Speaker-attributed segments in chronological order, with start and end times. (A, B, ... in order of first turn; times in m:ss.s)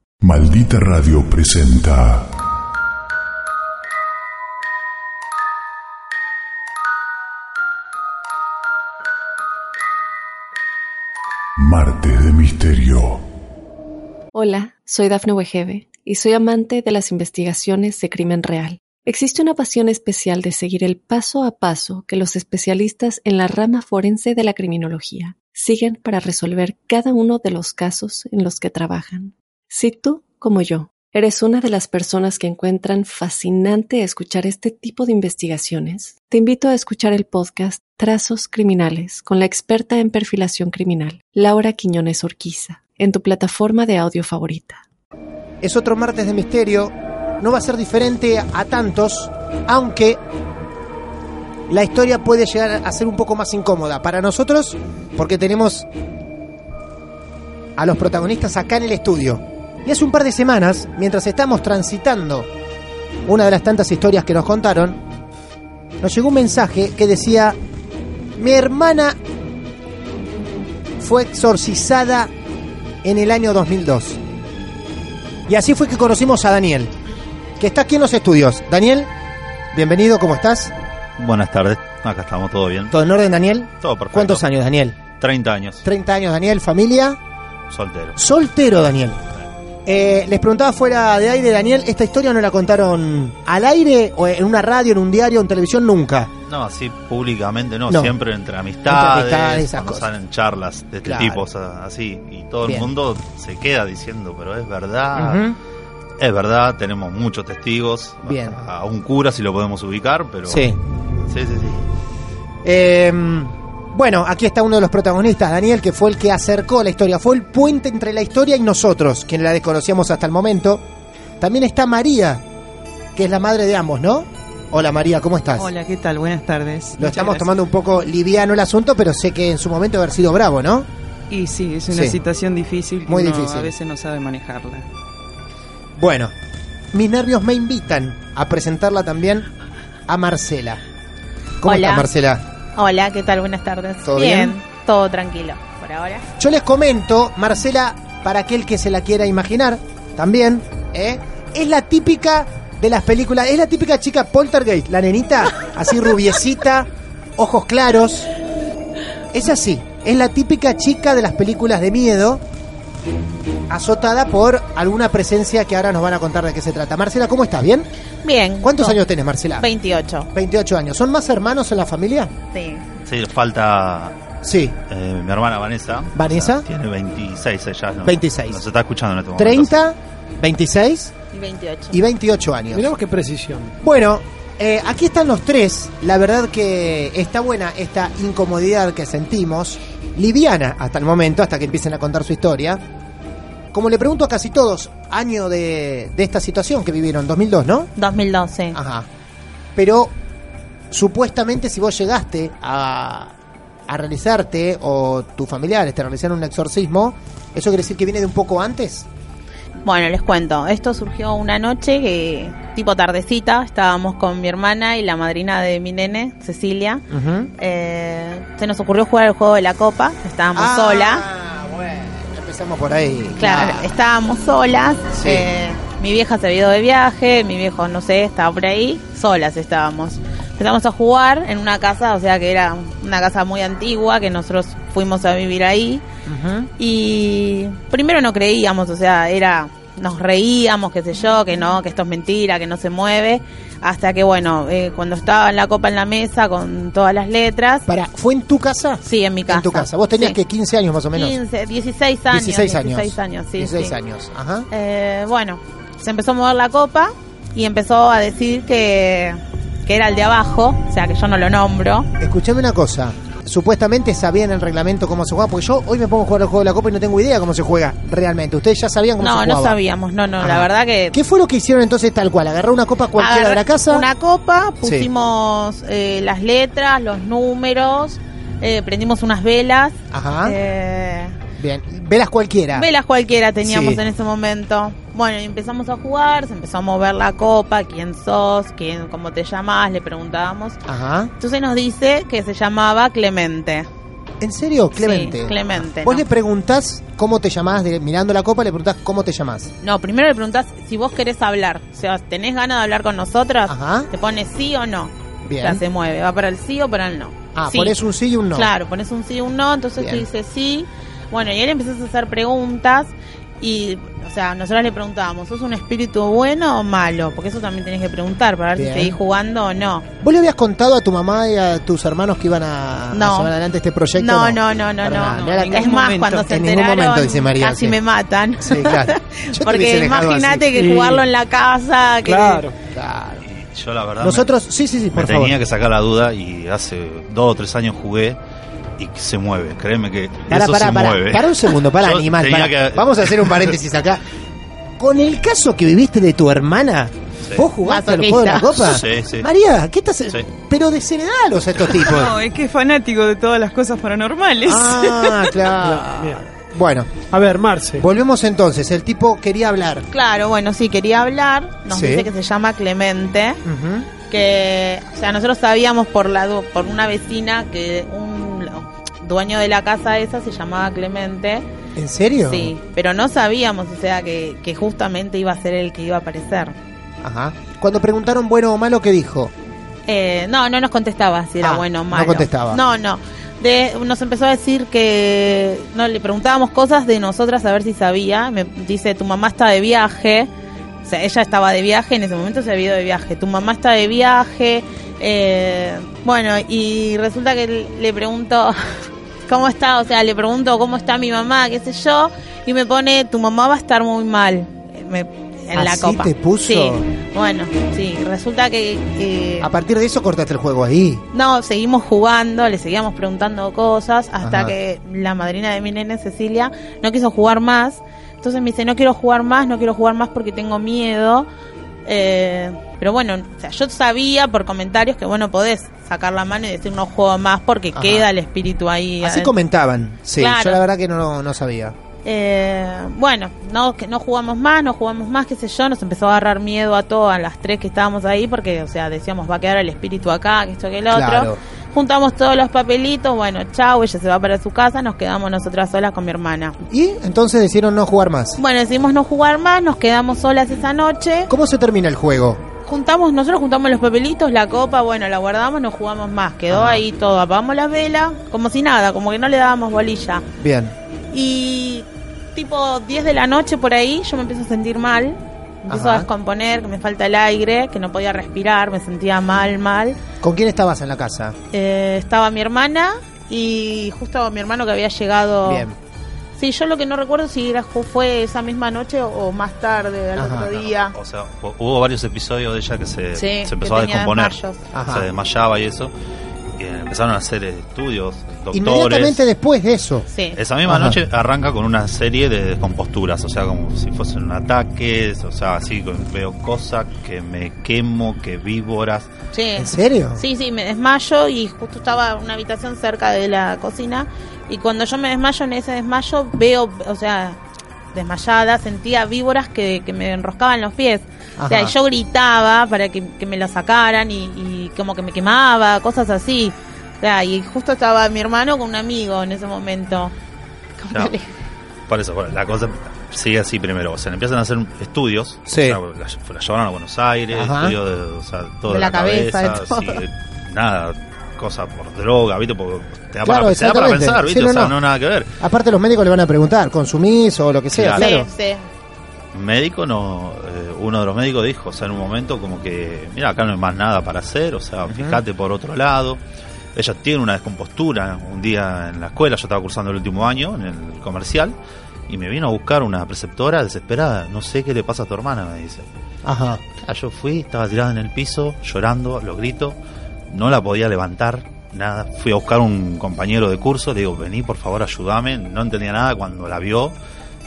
0:00.2-0:02.3 A
0:11.6-0:13.2 A
0:14.3-0:44.8 B
0:45.6-0:50.2 C
0:51.7-0:55.9 C
0:57.8-1:02.5 C
1:03.3-1:05.0 C
1:06.0-1:07.6 C
1:08.4-1:09.2 C
1:11.0-1:12.3 C
1:13.0-1:14.2 C
1:15.5-1:16.9 C
1:17.6-1:19.1 C
1:19.7-1:20.7 C
1:21.2-1:23.0 D
1:22.9-1:25.0 C
1:23.8-1:24.5 D
1:25.2-1:25.8 D
1:25.8-1:27.2 C
1:27.7-1:28.2 D
1:28.2-1:29.2 C
1:29.9-1:36.3 C
1:36.5-1:45.4 D
1:38.9-1:40.1 C
1:41.0-1:41.5 C
1:42.6-1:42.9 C
1:45.1-1:45.6 C
1:46.2-1:50.7 D
1:48.3-1:48.6 C
1:50.5-1:50.8 C
1:51.3-1:51.8 D
1:52.6-2:00.8 C
2:01.4-2:02.4 C
2:03.2-2:05.7 C
2:05.6-2:07.5 E
2:07.0-2:10.9 C
2:11.3-2:14.9 E
2:11.9-2:12.2 C
2:13.1-2:13.7 C
2:16.0-2:16.3 C
2:16.9-2:19.5 C
2:20.1-2:20.8 C
2:21.6-2:22.4 C
2:21.6-2:22.1 F
2:22.8-2:26.3 F
2:24.0-2:24.6 C
2:26.4-2:38.3 C
2:39.3-2:42.4 C
2:43.7-2:47.9 C
2:48.2-2:49.0 F
2:48.6-2:49.7 C
2:49.6-2:50.3 F
2:50.3-2:52.3 C
2:52.5-2:52.8 F
2:53.1-2:54.2 D
2:54.4-2:54.8 C
2:54.9-2:59.7 D
2:56.2-2:56.7 C
2:58.0-2:58.6 C
2:59.4-3:01.1 C
3:01.3-3:02.0 F
3:01.9-3:02.9 C
3:02.7-3:03.8 G
3:03.8-3:12.8 C
3:13.7-3:17.9 C
3:18.0-3:18.8 F
3:18.7-3:19.1 C
3:19.8-3:20.1 C
3:20.9-3:23.3 C
3:23.9-3:29.1 C
3:29.8-3:37.0 F
3:37.1-3:37.5 C
3:37.6-3:41.2 F
3:40.5-3:43.9 C
3:43.4-3:56.0 F
3:45.1-3:45.5 C
3:56.3-3:56.7 C
3:56.8-4:07.9 F
4:07.9-4:11.4 C
4:09.0-4:10.4 F
4:11.1-4:13.9 F
4:12.3-4:14.7 C
4:14.7-4:22.1 F
4:22.2-4:29.8 C
4:29.2-4:31.2 F
4:30.4-4:34.1 C
4:33.2-4:41.4 F
4:34.8-4:35.1 C
4:40.1-4:40.6 C
4:41.6-4:42.9 C
4:42.7-4:50.8 F
4:43.6-4:44.0 C
4:50.9-4:51.3 C
4:51.4-4:53.9 F
4:54.4-4:59.7 C
4:55.0-4:56.2 F
4:59.8-5:08.0 F
5:03.7-5:04.1 C
5:05.4-5:05.8 C
5:07.6-5:08.7 C
5:08.5-5:20.1 F
5:10.0-5:10.3 C
5:18.8-5:19.2 C
5:20.2-5:28.0 C
5:23.1-5:23.5 F
5:24.2-5:32.6 F
5:25.2-5:26.4 E
5:28.6-5:30.7 C
5:30.7-5:31.3 G
5:32.2-5:32.8 G
5:32.9-5:33.5 C
5:33.4-5:34.5 D
5:34.2-5:35.6 C
5:35.2-5:38.4 D
5:39.0-5:43.8 D
5:40.5-5:44.2 C
5:45.0-5:52.4 C
5:47.8-5:48.7 F
5:48.8-5:49.5 D
5:52.0-5:55.6 E
5:54.6-5:57.2 C
5:55.8-5:56.4 G
5:57.3-5:58.0 G
5:58.0-6:00.1 C
6:00.1-6:03.6 F
6:01.9-6:02.3 C
6:03.6-6:04.1 C
6:04.2-6:11.6 F
6:12.0-6:12.7 C
6:12.5-6:16.8 F
6:17.2-6:19.5 C
6:20.1-6:30.5 F
6:21.6-6:22.8 C
6:31.0-6:38.8 F
6:39.5-6:49.7 F
6:45.7-6:47.0 C
6:49.6-6:51.2 C
6:51.3-7:01.5 F
6:54.4-6:54.8 C
7:02.1-7:09.5 F
7:07.9-7:08.3 C
7:09.2-7:12.0 C
7:10.4-7:10.8 F
7:12.2-7:26.8 F
7:21.1-7:21.6 C
7:26.9-7:28.6 C
7:28.6-7:31.5 F
7:31.5-7:32.6 C
7:32.8-7:40.5 F
7:36.7-7:37.0 C
7:40.6-7:40.9 C
7:41.3-7:50.2 F
7:45.9-7:46.3 C
7:50.4-7:51.6 C
7:51.7-7:55.9 F
7:55.6-7:56.0 C
7:56.6-8:01.2 F
8:00.4-8:00.8 C
8:01.1-8:04.6 D
8:03.4-8:04.8 F
8:04.9-8:05.3 C
8:05.1-8:06.1 D
8:06.8-8:09.4 D
8:08.7-8:10.3 C
8:10.3-8:10.6 F
8:10.6-8:19.3 D
8:10.9-8:11.2 C
8:19.5-8:27.6 F
8:19.8-8:20.4 C
8:28.1-8:40.3 F
8:31.6-8:32.0 C
8:41.0-8:41.5 F
8:42.1-8:55.5 D
8:45.7-8:46.0 C
8:47.5-8:48.0 C
8:48.9-8:50.2 F
8:53.4-8:55.0 C
8:55.6-8:58.5 C
8:57.9-8:58.3 D
8:58.2-8:58.9 F
8:59.5-9:06.4 D
9:05.1-9:05.4 C
9:07.0-9:11.8 D
9:12.3-9:16.1 D
9:16.4-9:16.8 C
9:17.0-9:20.0 D
9:20.5-9:27.2 D